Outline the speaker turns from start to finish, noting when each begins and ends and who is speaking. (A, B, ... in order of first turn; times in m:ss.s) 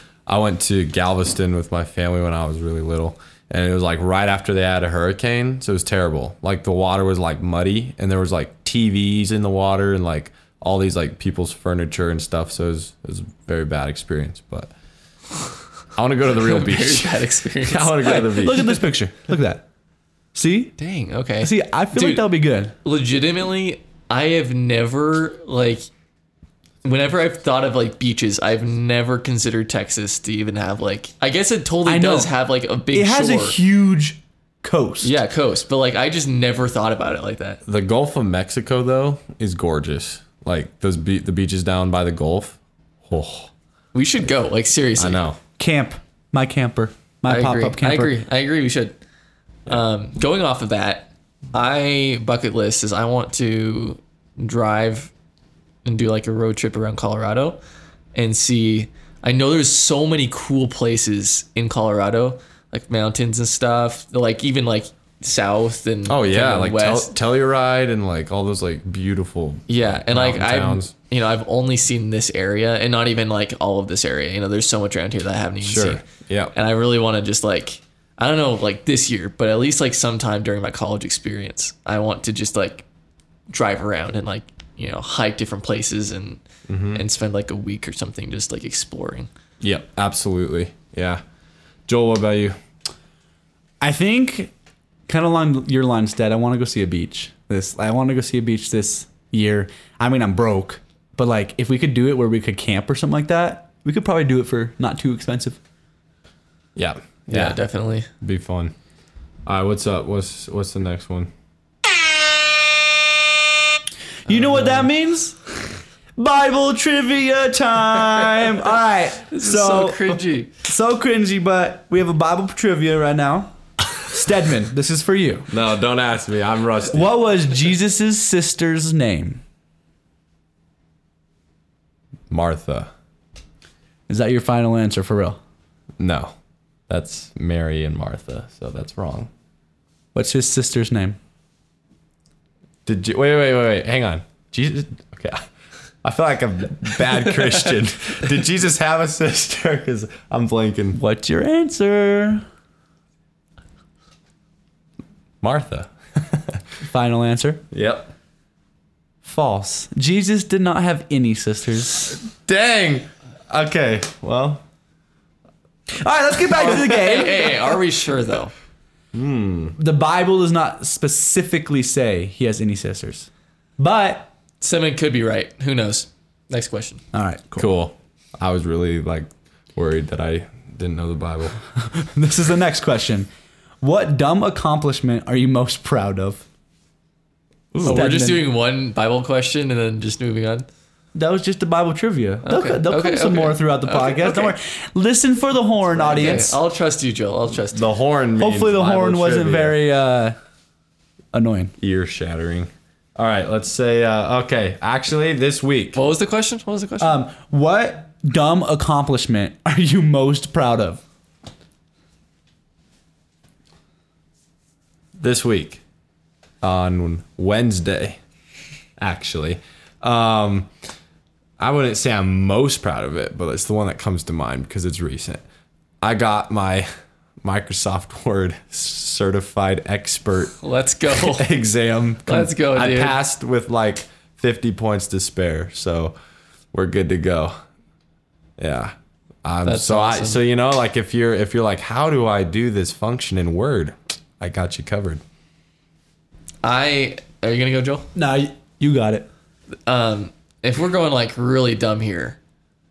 0:00.2-0:14.7 A
0:15.9-0:18.7 A
0:16.3-0:18.4 B
0:18.0-0:19.6 C
0:20.3-0:20.7 C
0:20.8-0:22.3 B
0:21.4-0:22.7 C
0:22.8-0:25.9 B
0:26.8-0:33.6 B
0:31.8-0:32.3 C
0:32.9-0:35.1 C
0:35.0-0:37.6 B
0:37.6-0:43.5 A
0:43.9-0:45.2 B
0:45.0-0:45.4 A
0:45.6-0:48.1 C
0:47.3-0:49.0 B
0:49.6-0:55.1 B
0:55.8-0:57.6 B
0:58.1-1:07.1 B
1:06.1-1:10.9 A
1:09.7-1:16.0 B
1:15.6-1:16.5 A
1:16.5-1:22.8 B
1:23.5-1:26.4 B
1:26.7-1:27.0 A
1:26.9-1:29.3 B
1:29.6-1:31.2 A
1:31.9-1:32.6 A
1:33.8-1:34.5 C
1:35.1-1:45.6 C
1:46.8-1:47.6 A
1:47.3-1:48.1 B
1:48.2-1:48.7 A
1:49.4-1:51.3 A
1:54.3-2:05.5 C
1:59.3-2:00.5 B
2:05.5-2:07.1 A
2:06.9-2:09.4 C
2:12.3-2:12.9 A
2:14.1-2:15.4 C
2:16.0-2:16.3 A
2:16.9-2:19.3 A
2:20.1-2:21.2 C
2:22.8-2:25.4 A
2:26.0-2:31.0 A
2:30.9-2:32.4 C
2:35.4-2:36.6 A
2:36.8-2:37.6 C
2:37.7-2:38.1 A
2:39.2-2:42.2 C
2:42.3-2:44.6 A
2:45.9-2:47.8 C
2:46.5-2:48.5 B
2:49.1-2:49.8 A
2:49.8-2:54.3 C
2:54.6-2:57.0 B
2:57.1-2:57.7 C
2:57.6-3:01.6 A
3:01.7-3:03.3 C
3:03.8-3:06.4 C
3:07.7-3:08.1 A
3:07.8-3:08.4 C
3:07.8-3:10.6 B
3:11.1-3:16.6 C
3:12.4-3:14.5 B
3:16.0-3:17.9 B
3:17.7-3:19.8 A
3:18.4-3:20.4 C
3:21.3-3:21.7 C
3:21.8-3:26.0 A
3:25.9-3:27.2 B
3:27.0-3:31.0 C
3:35.2-3:35.8 A
3:36.6-3:38.2 A
3:39.0-3:40.7 A
3:41.6-3:45.4 A
3:46.0-3:46.9 A
3:47.4-3:50.6 A
3:50.6-3:51.5 B
3:51.1-3:56.1 A
3:52.3-3:53.2 B
3:56.7-3:57.6 A
3:58.6-4:05.2 A
3:59.6-4:00.4 B
4:06.6-4:08.1 B
4:08.1-4:09.3 C
4:09.8-4:12.4 B